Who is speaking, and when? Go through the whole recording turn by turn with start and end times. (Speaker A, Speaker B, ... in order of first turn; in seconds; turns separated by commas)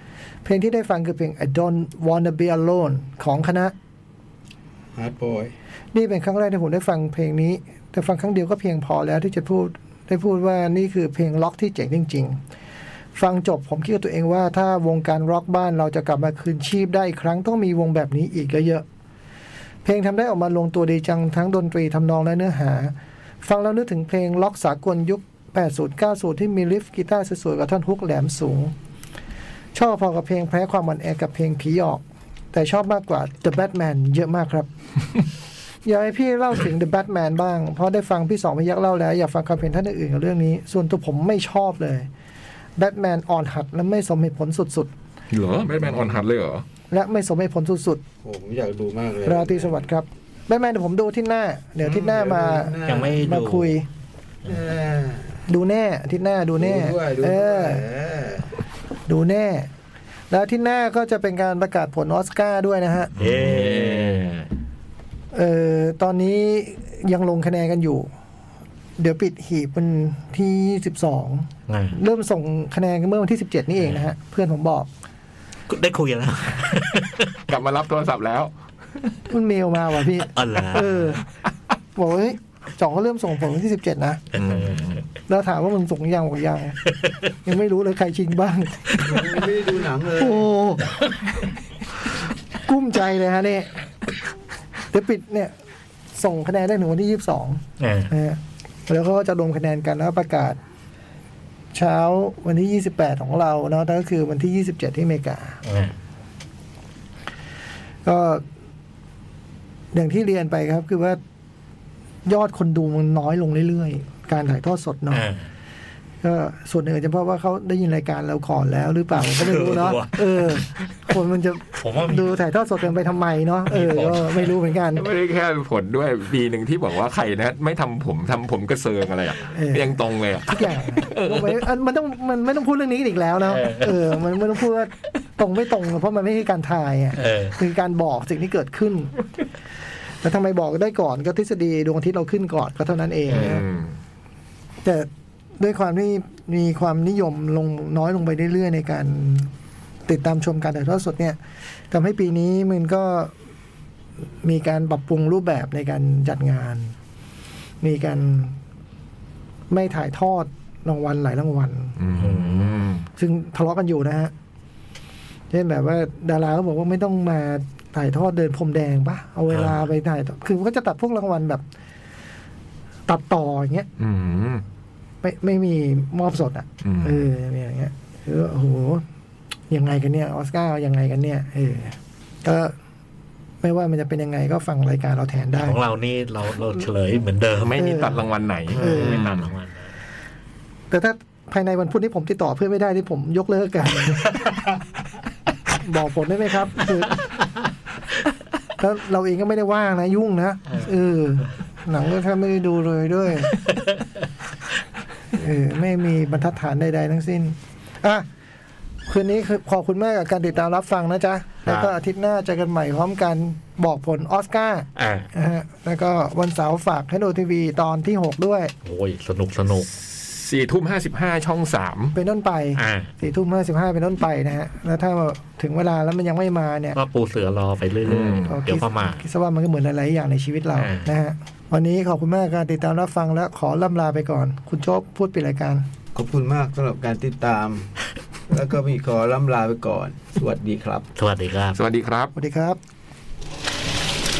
Speaker A: 0.4-3.7, Speaker B: 5.0-5.5, Speaker A: 5.9-12.4, Speaker A: 13.1-18.8, Speaker A: 19.8-28.7, Speaker A: 29.7-34.7, Speaker A: 35.8-42.1, Speaker A: 42.8-44.9, Speaker C: 45.3-46.6, Speaker A: 46.9-48.0, Speaker B: 48.2-49.8, Speaker A: 49.2-53.9, Speaker B: 51.8-53.2, Speaker D: 52.9-53.7, Speaker B: 54.4-55.4, Speaker A: 55.5-57.8, Speaker B: 56.6-58.5, Speaker A: 59.1-59.7, Speaker A: 60.3-63.1, Speaker D: 63.1-64.3, Speaker C: 63.1-64.5, Speaker A: 65.3-68.1, Speaker A: 69.0-74.9, Speaker D: 71.7-72.0, Speaker D: 75.7-77.3, Speaker C: 77.5-79.1, Speaker A: 79.3-81.2, Speaker D: 80.3-81.2, Speaker A: 82.0-84.2, Speaker D: 84.3-85.0, Speaker C: 84.3-85.0, Speaker A: 85.3-89.0, Speaker B: 89.0-90.5, Speaker A: 90.2-91.0, Speaker A: 92.6-93.8, Speaker A: 94.9-95.5, Speaker A: 96.1-100.6, Speaker D: 97.8-98.1, Speaker A: 101.7-105.6, Speaker D: 105.6-106.0, Speaker A: 108.0-108.4, Speaker A: 109.9-111.2, Speaker A: 112.2-115.2, Speaker D: 115.1-115.5, Speaker A: 116.2-125.1, Speaker D: 119.2-120.6, Speaker D: 121.8-122.3, Speaker D: 123.7-124.5, Speaker C: 124.9-131.7, Speaker A: 129.5-139.1, Speaker D: 133.5-134.2, Speaker D: 137.2-137.6, Speaker A: 140.2-143.6, Speaker C: 143.3-144.0, Speaker A: 144.8-149.5, Speaker A: 150.1-151.4, Speaker A: 151.9-153.3, Speaker A: 154.4-156.9, Speaker A: 157.8-158.6, Speaker A: 159.7-162.0, Speaker C: 162.0-163.1, Speaker D: 162.1-162.9, Speaker A: 163.2-164.3, Speaker A: 165.5-171.6, Speaker A: 173.1-173.9, Speaker C: 174.0-174.6, Speaker A: 175.2-179.0, Speaker C: 176.8-177.2, Speaker A: 179.7-182.7, Speaker A: 183.6-185.8, Speaker D: 185.6-188.2, Speaker C: 187.6-189.5, Speaker A: 187.7-188.1, Speaker D: 188.7-189.9, Speaker A: 188.8-189.2, Speaker A: 190.9-194.4, Speaker A: 195.8-197.2, Speaker A: 198.8-203.6, Speaker A: 205.3-208.2, Speaker A: 209.1-218.7, Speaker D: 214.9-215.3, Speaker D: 218.8-219.9, Speaker C: 220.0-222.2, Speaker A: 222.1-227.0, Speaker D: 222.8-223.1, Speaker D: 226.9-229.2, Speaker C: 228.0-228.6, Speaker A: 228.5-235.8, Speaker D: 230.7-231.1, Speaker B: 236.1-237.9, Speaker B: 238.5-241.1, Speaker D: 241.2-241.8, Speaker C: 241.7-242.3, Speaker A: 242.3-242.8